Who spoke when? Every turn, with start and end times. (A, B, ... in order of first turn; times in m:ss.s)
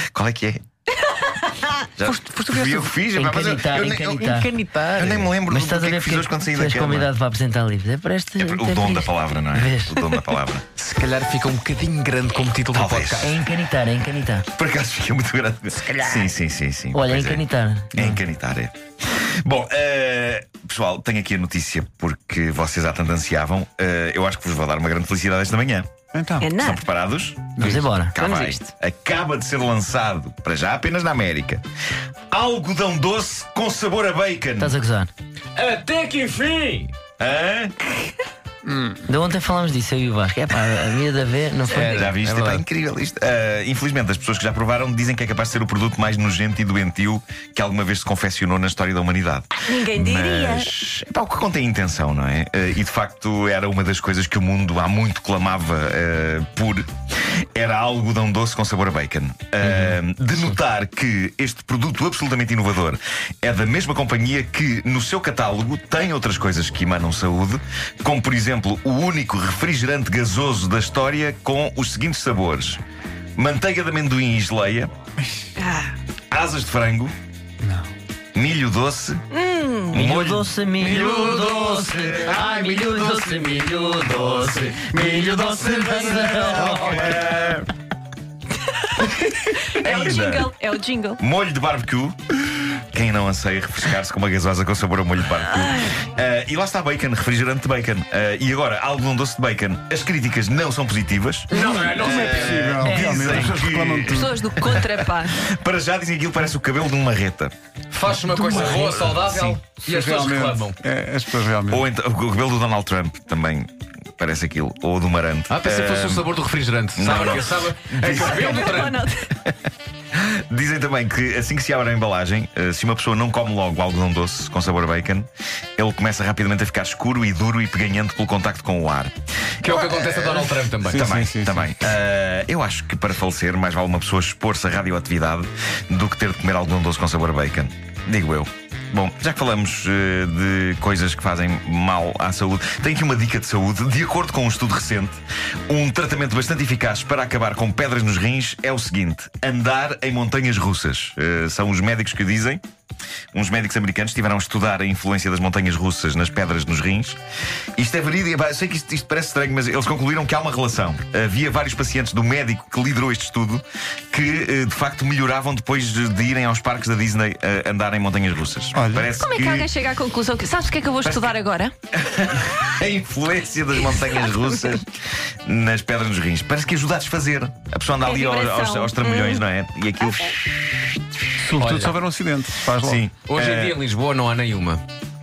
0:00.1-0:00.6 A
0:01.0-0:01.8 B
0:02.0-0:07.1 A
0:02.2-0:02.8 C
0:03.1-0:10.1 D
0:04.7-0:05.2 C
0:08.4-0:10.6 A
0:10.8-0:13.3 C
0:12.7-0:13.4 A
0:13.2-0:14.5 D
0:14.5-0:18.8 A
0:16.9-0:18.2 D
0:19.4-0:25.9 A
0:26.1-0:26.5 E
0:26.4-0:26.8 B
0:26.5-0:31.6 A
0:27.6-0:27.9 E
0:27.6-0:28.1 D
0:28.1-0:28.7 B
0:32.3-0:34.7 A
0:34.6-0:35.1 D
0:35.6-0:36.9 C
0:37.2-0:37.8 A
0:38.7-0:39.0 E
0:39.1-0:42.2 D
0:41.7-0:42.6 C
0:41.8-1:12.8 A
0:49.6-0:50.7 B
0:59.6-0:59.9 D
1:13.4-1:14.9 A
1:15.6-1:15.9 B
1:16.3-1:17.2 A
1:18.4-1:19.2 A
1:19.3-1:20.0 B
1:19.9-1:27.7 A
1:19.9-1:27.2 D
1:29.4-1:31.2 B
1:29.7-1:30.5 A
1:31.2-1:47.5 A
1:41.5-1:42.8 C
1:41.5-1:44.4 E
1:42.8-1:43.6 D
1:44.1-1:45.4 B
1:47.9-1:50.8 C
1:48.3-1:49.2 D
1:48.4-1:48.9 E
1:49.7-1:51.9 E
1:51.7-1:56.3 A
1:55.5-1:59.0 C
1:57.0-1:58.9 A
1:58.2-1:59.3 B
2:00.1-2:32.6 A
2:09.6-2:11.2 C
2:10.9-2:11.7 E
2:33.3-2:37.2 A
2:37.8-2:49.7 A
2:48.8-2:49.1 E
2:49.2-2:51.7 B
2:51.0-2:51.4 A
2:51.9-3:01.0 A
2:58.0-2:59.4 B
3:01.4-3:03.1 E
3:01.6-3:02.0 C
3:02.8-3:03.8 A
3:03.2-3:04.8 C